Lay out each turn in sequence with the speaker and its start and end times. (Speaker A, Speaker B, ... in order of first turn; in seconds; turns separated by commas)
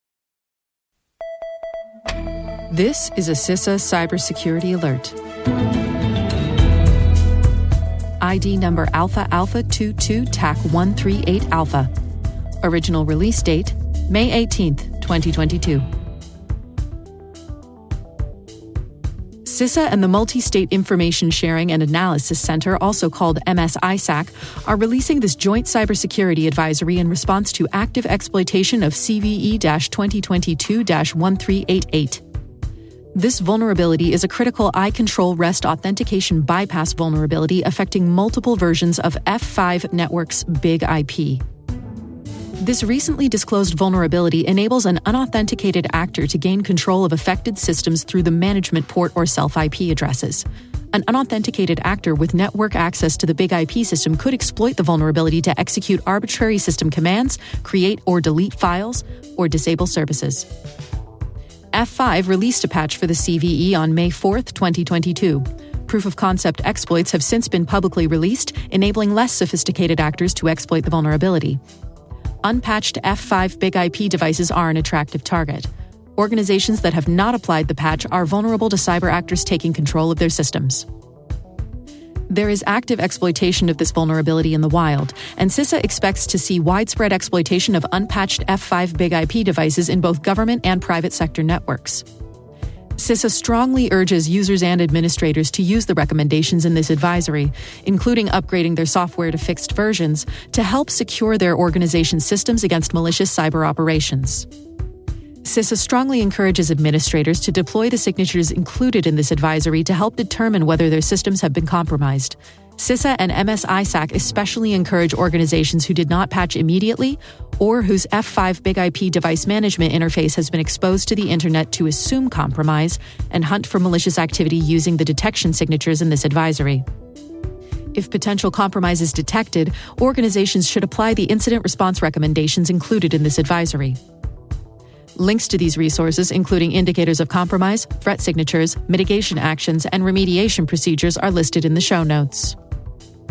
Speaker A: 2.7-5.2, Speaker A: 8.2-11.9, Speaker A: 12.6-15.9, Speaker A: 19.4-32.2, Speaker A: 33.1-41.4, Speaker A: 42.6-60.5, Speaker A: 61.7-71.6, Speaker A: 72.4-80.9, Speaker A: 82.3-92.0, Speaker A: 93.0-104.5, Speaker A: 105.4-126.8, Speaker A: 127.9-134.0, Speaker A: 135.2-142.6